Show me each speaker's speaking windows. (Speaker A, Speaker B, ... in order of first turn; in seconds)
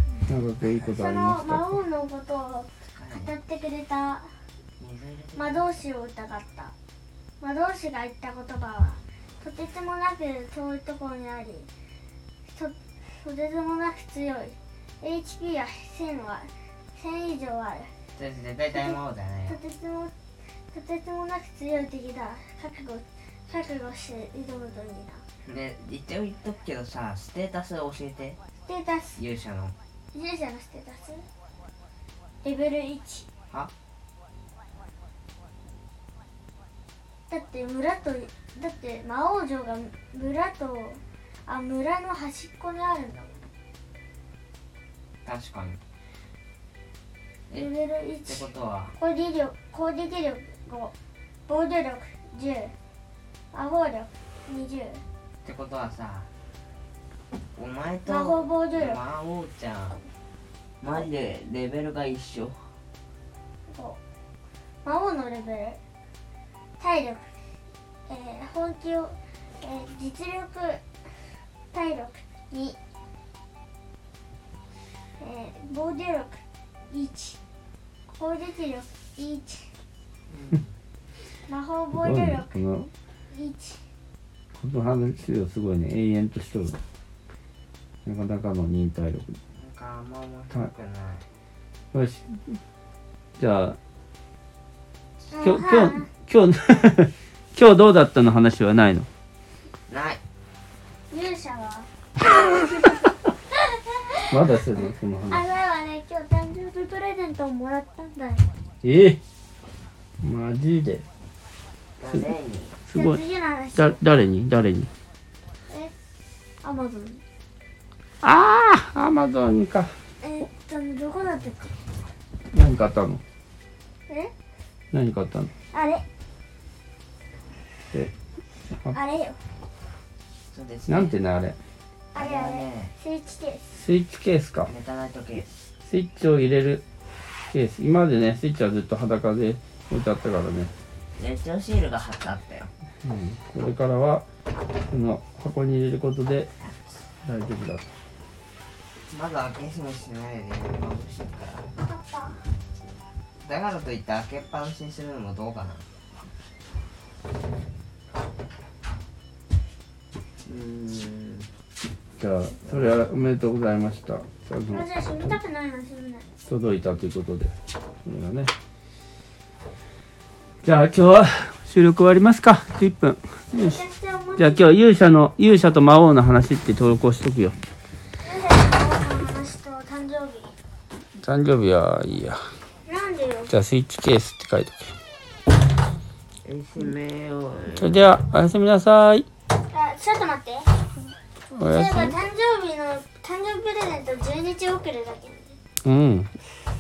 Speaker A: 0.3-1.6, 81.9-82.9, 84.5-86.8, 88.0-89.4, 91.9-92.6, 93.4-93.8, 95.4-99.1, 104.3-105.5, 108.8-109.2, 110.2-111.0, 112.9-113.2, 113.8-114.9, 118.2-119.9, 122.5-123.2, 124.9-125.5, 130.9-131.6, 133.7-134.7, 135.8-136.8, 137.5-140.7, 143.0-144.2, 144.9-146.5, 147.2-147.9, 162.2-164.9, 166.5-167.5, 168.1-168.5, 170.6-173.8, 174.4-177.6, 181.2-182.4, 183.5-184.9, 187.7-189.3, 191.5-192.2, 195.8-196.3
Speaker B: 0.8-4.3, 5.4-6.7, 7.4-11.7, 12.5-17.9, 18.7-20.1, 20.7-25.2, 28.6-29.2, 30.1-31.3, 32.4-33.3, 37.3-43.4, 47.5-50.9, 51.5-52.7, 53.5-55.0, 58.1-59.0, 63.7-64.0, 64.8-65.8, 66.8-67.3, 68.1-70.8, 71.7-72.8, 75.2-77.4, 78.1-79.7, 81.5-82.6, 83.3-83.8, 95.3-96.1, 101.1-102.7, 103.7-104.4, 105.3-108.5, 112.9-114.0, 116.6-117.2, 120.2-121.7, 125.7-126.0, 128.9-129.4, 132.2-133.7, 151.8-152.4, 164.7-166.3, 173.5-174.7, 178.2-180.5, 182.9-183.5, 189.7-190.7, 191.7-195.6
Speaker C: 2.8-3.3, 4.8-5.7, 18.1-19.6, 25.4-28.4, 29.2-29.7, 45.2-45.8, 48.3-49.0, 55.4-56.3, 57.6-60.0, 60.8-62.7, 80.3-80.7, 89.5-91.2, 99.9-100.2, 112.0-112.8, 130.5-131.2, 132.2-132.9, 134.7-135.5, 141.2-142.7, 149.1-151.7, 153.4-155.8, 160.4-161.5, 186.4-188.1